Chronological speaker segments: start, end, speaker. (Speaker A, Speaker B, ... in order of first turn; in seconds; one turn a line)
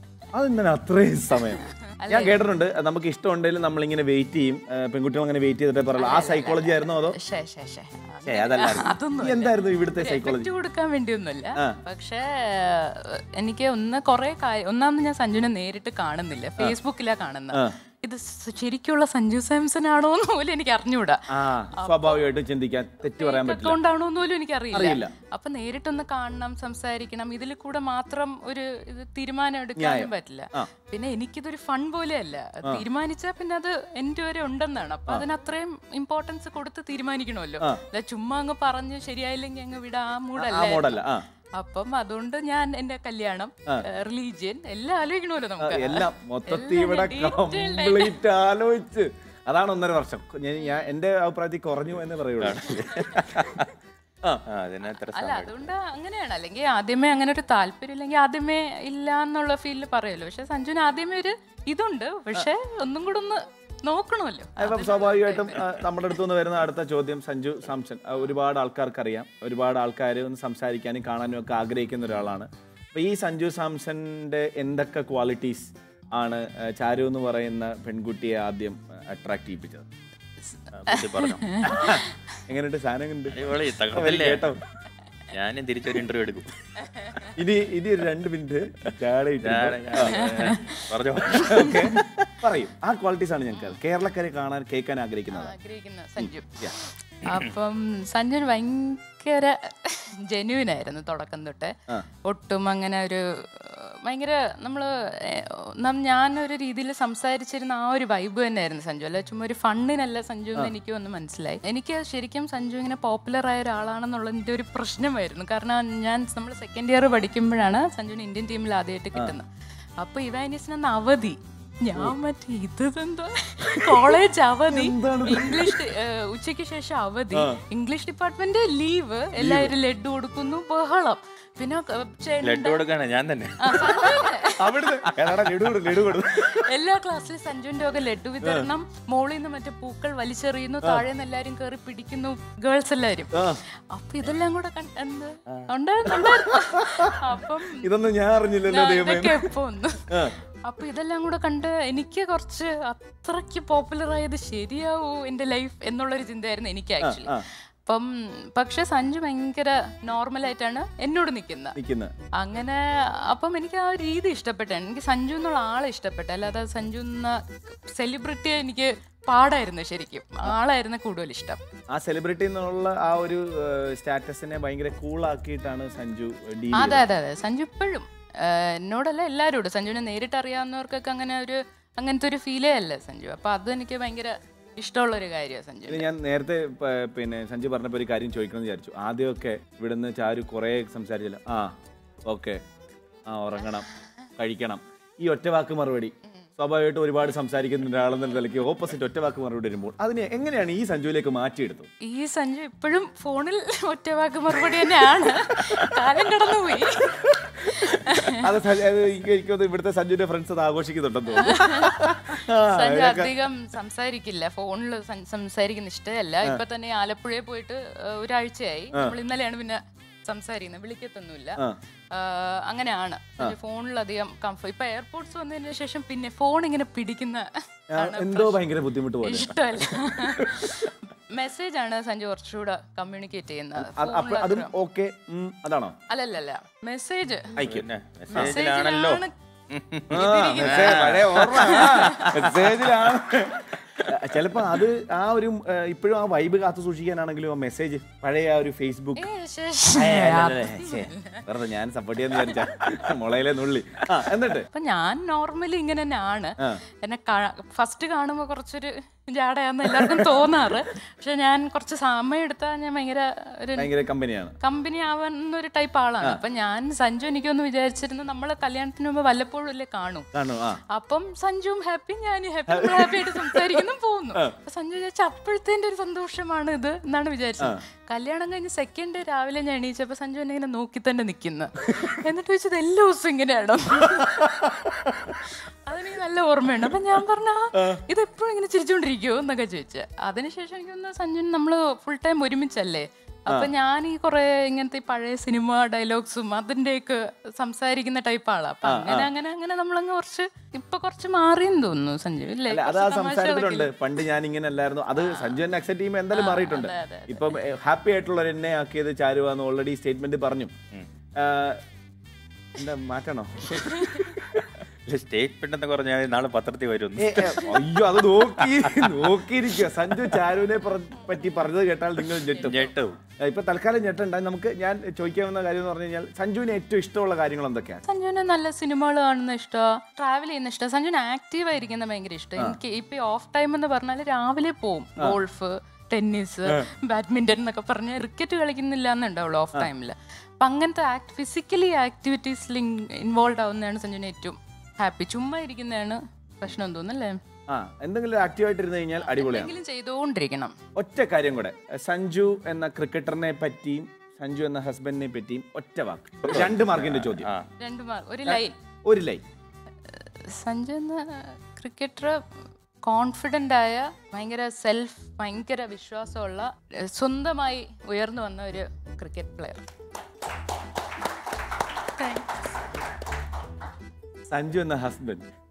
Speaker A: 0.3-7.2
Speaker B: 1.6-2.5
Speaker B: 5.9-22.3
Speaker A: 8.2-10.5
Speaker A: 21.3-23.8
Speaker B: 23.1-48.2
Speaker A: 24.7-25.1
Speaker A: 29.8-30.7
Speaker A: 40.4-41.2
Speaker A: 45.6-52.7
Speaker C: 52.4-53.7
Speaker C: 54.5-55.7
Speaker B: 55.0-65.8
Speaker A: 64.6-79.8
Speaker B: 80.5-82.4
Speaker C: 80.7-81.6
Speaker A: 81.6-83.4
Speaker C: 83.3-84.6
Speaker A: 83.9-84.6
Speaker C: 85.3-86.5
Speaker B: 86.8-87.3
Speaker A: 87.3-90.5
Speaker C: 89.4-91.9
Speaker B: 90.0-92.0
Speaker A: 91.4-95.5
Speaker B: 95.3-119.5
Speaker A: 96.2-96.7
Speaker B: 120.0-132.8
Speaker A: 123.7-125.8
Speaker A: 127.3-127.6
Speaker A: 129.4-129.7
Speaker C: 132.4-134.0
Speaker B: 133.6-135.1
Speaker A: 134.6-136.7
Speaker B: 136.3-147.9
Speaker A: 138.4-138.7
Speaker A: 143.3-143.6
Speaker A: 146.1-149.5
Speaker B: 148.7-161.8
Speaker A: 150.1-150.4
Speaker A: 157.0-157.5
Speaker A: 161.8-162.1
Speaker B: 162.4-171.6
Speaker A: 171.9-177.1
Speaker B: 176.7-186.1
Speaker A: 185.9-191.7
Speaker A: 192.3-192.6
Speaker A: 193.3-201.9
Speaker B: 202.0-208.5
Speaker A: 208.4-213.4
Speaker B: 211.3-234.7
Speaker A: 227.9-230.8
Speaker A: 233.8-235.9
Speaker B: 236.1-237.6
Speaker A: 237.6-238.5
Speaker C: 237.6-244.1
Speaker B: 238.3-239.3
Speaker A: 240.1-249.3
Speaker B: 240.1-242.4
Speaker B: 249.2-251.4
Speaker A: 249.9-254.7
Speaker C: 250.1-251.1
Speaker B: 254.7-263.9
Speaker A: 259.9-260.6
Speaker A: 263.8-264.5
Speaker B: 264.6-270.3
Speaker A: 270.3-270.8
Speaker B: 270.9-284.6
Speaker A: 272.7-274.6
Speaker A: 284.4-285.4
Speaker B: 285.7-303.9
Speaker A: 287.7-288.0
Speaker A: 298.8-299.3
Speaker A: 302.7-310.7
Speaker B: 305.2-305.6
Speaker B: 306.3-307.6
Speaker A: 311.4-311.8
Speaker A: 312.7-314.3
Speaker B: 313.8-314.3
Speaker C: 315.1-317.7
Speaker A: 317.2-322.9
Speaker C: 318.6-319.3
Speaker C: 322.6-323.2
Speaker A: 323.4-328.0
Speaker B: 328.1-347.4
Speaker A: 347.7-349.7
Speaker B: 349.2-350.7
Speaker A: 350.9-357.5
Speaker C: 356.4-357.7
Speaker B: 357.8-358.8
Speaker A: 358.4-359.4
Speaker B: 360.1-362.4
Speaker B: 363.1-369.9
Speaker B: 372.0-372.5
Speaker A: 374.5-375.5